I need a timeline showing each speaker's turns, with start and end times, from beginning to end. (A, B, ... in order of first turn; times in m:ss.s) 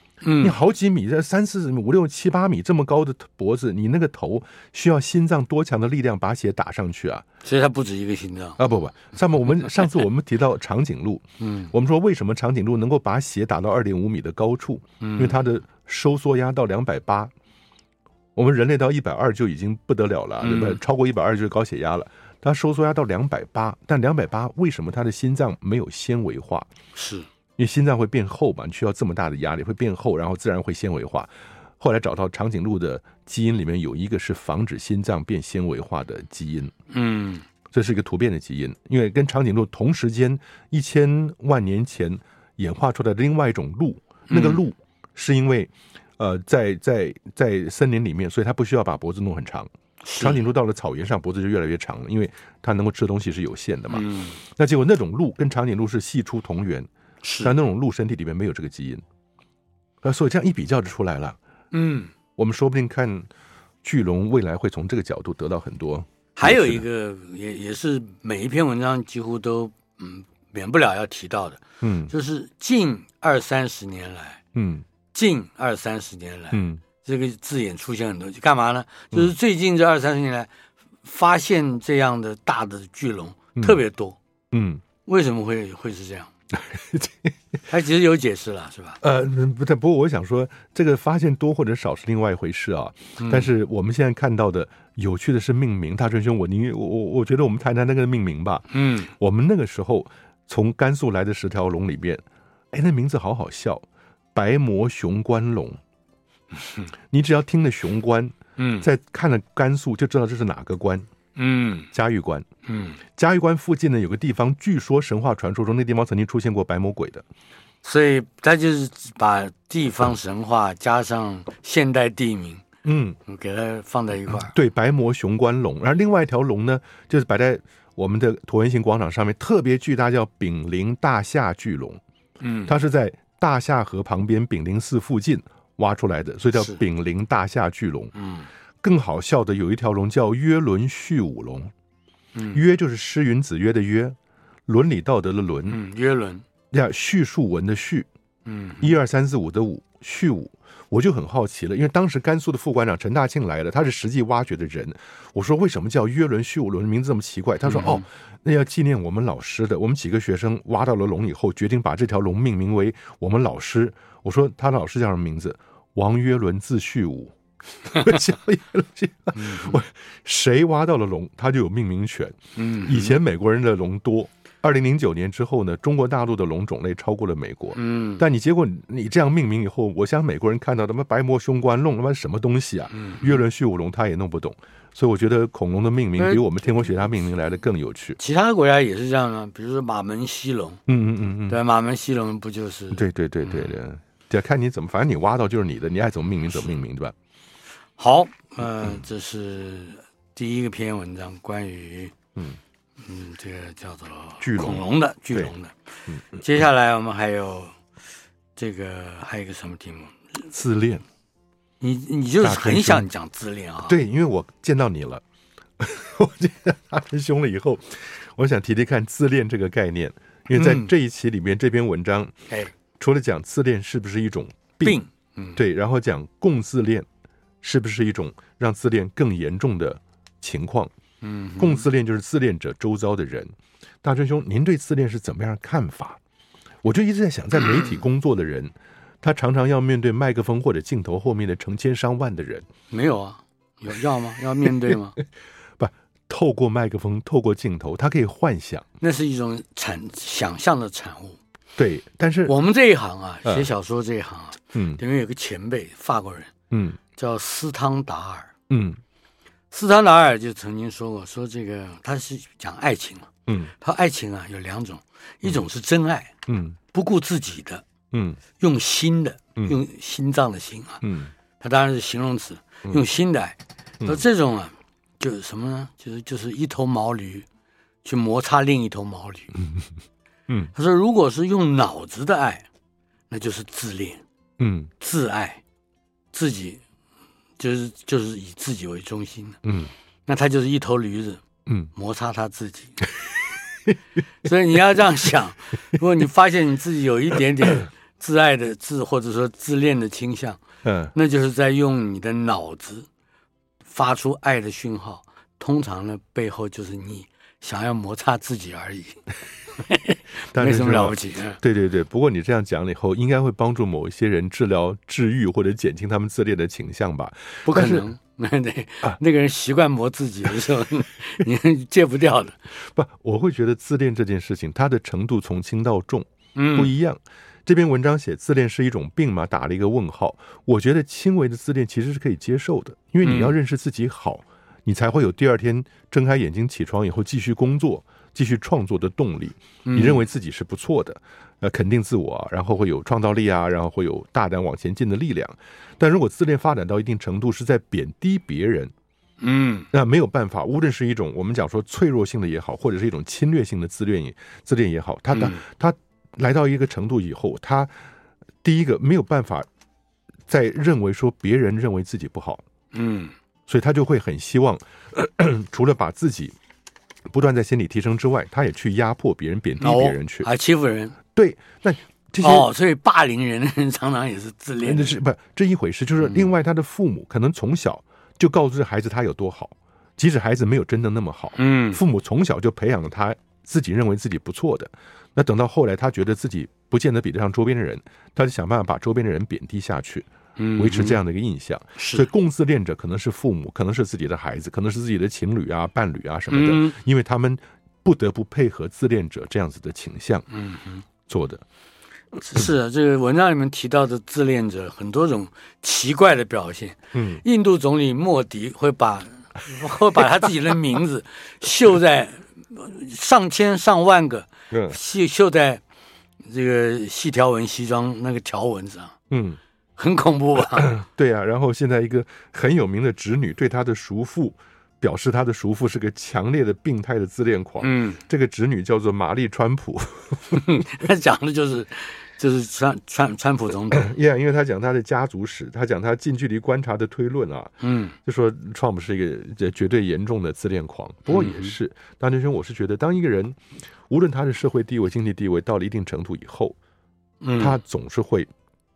0:00.2-0:00.6 A
0:00.4-0:07.2 B
0:07.4-0:08.6 A
0:08.6-0:17.3 B
0:11.4-0:11.7 A
0:15.0-0:15.4 A
0:18.3-0:26.7 B
0:20.4-0:20.8 A
0:26.9-0:27.3 A
0:27.6-0:36.7 B
0:36.9-0:37.4 A
0:37.7-0:56.9 B
0:44.3-0:44.6 A
0:50.0-0:50.4 A
0:53.9-0:54.4 A
0:57.2-0:57.5 A
0:57.4-0:59.0 B
1:00.0-1:01.4 B
1:01.7-1:02.1 A
1:02.4-1:03.3 B
1:03.8-1:06.8 B
1:06.4-1:14.4 A
1:11.8-1:12.1 B
1:14.5-1:14.8 B
1:15.1-1:20.5 A
1:16.5-1:16.8 B
1:21.0-1:24.2 A
1:24.5-1:24.8 B
1:25.0-1:26.3 A
1:26.5-1:27.3 B
1:27.7-1:29.0 A
1:29.0-1:45.8 B
1:33.2-1:33.5 A
1:38.7-1:39.1 A
1:47.1-1:51.0 B
1:48.6-1:48.9 A
1:51.4-1:51.9 A
1:51.9-1:52.5 B
1:52.6-1:53.0 A
1:53.1-1:57.2 B
1:57.8-2:02.6 A
2:02.8-2:03.2 B
2:03.2-2:04.5 A
2:04.3-2:12.0 B
2:12.4-2:12.7 A
2:12.6-2:18.1 B
2:16.5-2:16.8 A
2:18.1-2:18.5 A
2:18.8-2:21.7 B
2:22.3-2:22.6 A
2:22.5-2:24.2 B
2:24.7-2:25.8 B
2:25.7-2:26.4 A
2:26.7-2:28.1 B
2:28.4-2:28.9 A
2:28.8-2:47.3 B
2:37.6-2:38.0 A
2:47.8-3:08.2 B
2:49.3-2:49.8 A
2:52.6-2:53.2 A
2:57.8-2:58.2 A
3:02.9-3:03.4 A
3:06.2-3:06.4 A
3:08.2-3:10.8 A
3:10.9-3:11.6 B
3:11.5-3:13.7 A
3:12.9-3:17.1 B
3:18.0-3:22.1 A
3:23.0-3:25.7 A
3:24.4-3:25.5 B
3:26.3-3:27.7 A
3:28.6-3:30.2 A
3:30.5-3:31.0 B
3:31.8-3:34.0 A
3:32.4-3:33.1 B
3:33.8-3:35.2 B
3:35.8-3:42.3 B
3:40.5-3:40.9 A
3:43.0-3:45.0 B
3:44.8-3:45.6 A
3:45.6-3:47.0 B
3:47.6-3:50.9 B
3:51.2-3:51.8 A
3:51.6-3:56.2 B
3:56.8-4:02.7 B
4:02.9-4:05.2 A
4:04.6-4:05.0 B
4:05.8-4:08.8 B
4:09.0-4:11.4 A
4:11.8-4:12.5 B
4:12.5-4:16.5 A
4:14.7-4:15.0 B
4:16.7-4:17.0 B
4:17.2-4:18.5 A
4:18.7-4:19.0 B
4:19.7-4:26.3 A
4:23.5-4:23.7 B
4:26.5-4:26.8 B
4:26.9-4:27.8 A
4:28.1-4:28.4 B
4:28.6-4:31.0 A
4:31.0-4:31.3 B
4:31.6-4:37.5 A
4:38.0-4:39.6 A
4:40.5-4:40.7 B
4:40.7-4:42.7 A
4:43.3-4:44.2 A
4:44.6-4:44.9 B
4:45.0-4:45.6 A
4:46.3-4:46.8 A
4:47.6-4:49.6 A
4:49.6-4:49.9 B
4:50.2-4:51.4 A
4:51.6-4:51.9 B
4:51.9-4:53.0 A
4:54.4-5:00.6 A
5:00.8-5:01.1 B
5:01.1-5:03.1 A
5:03.9-5:09.2 A
5:09.8-5:11.6 A
5:10.5-5:18.1 B
5:17.6-5:22.6 A
5:22.9-5:48.9 B
5:26.6-5:26.9 A
5:33.2-5:33.5 A
5:39.8-5:40.2 A
5:49.4-5:49.9 A
5:49.9-5:57.9 B
5:55.3-5:55.6 A
5:58.6-5:59.7 B
6:00.5-6:02.6 B
6:02.9-6:03.3 A
6:03.7-6:06.6 B
6:07.3-6:10.5 B
6:09.8-6:11.2 A
6:11.3-6:12.7 B
6:12.4-6:15.2 A
6:14.8-6:40.4 B
6:16.2-6:16.5 A
6:21.6-6:22.0 A
6:30.6-6:31.2 A
6:32.0-6:32.3 A
6:36.5-6:37.0 A
6:40.5-6:41.0 A
6:41.3-6:41.6 B
6:42.4-6:55.8 A
6:47.1-6:47.4 B
6:54.7-6:55.0 B
6:56.4-6:59.1 A
6:59.3-6:59.6 B
7:00.0-7:01.0 A
7:00.8-7:10.8 B
7:07.8-7:08.2 A
7:10.5-7:14.1 A
7:13.9-7:23.6 B
7:17.8-7:18.2 A
7:21.3-7:21.7 A
7:24.1-7:26.8 B
7:27.4-7:27.8 A
7:27.6-7:28.5 B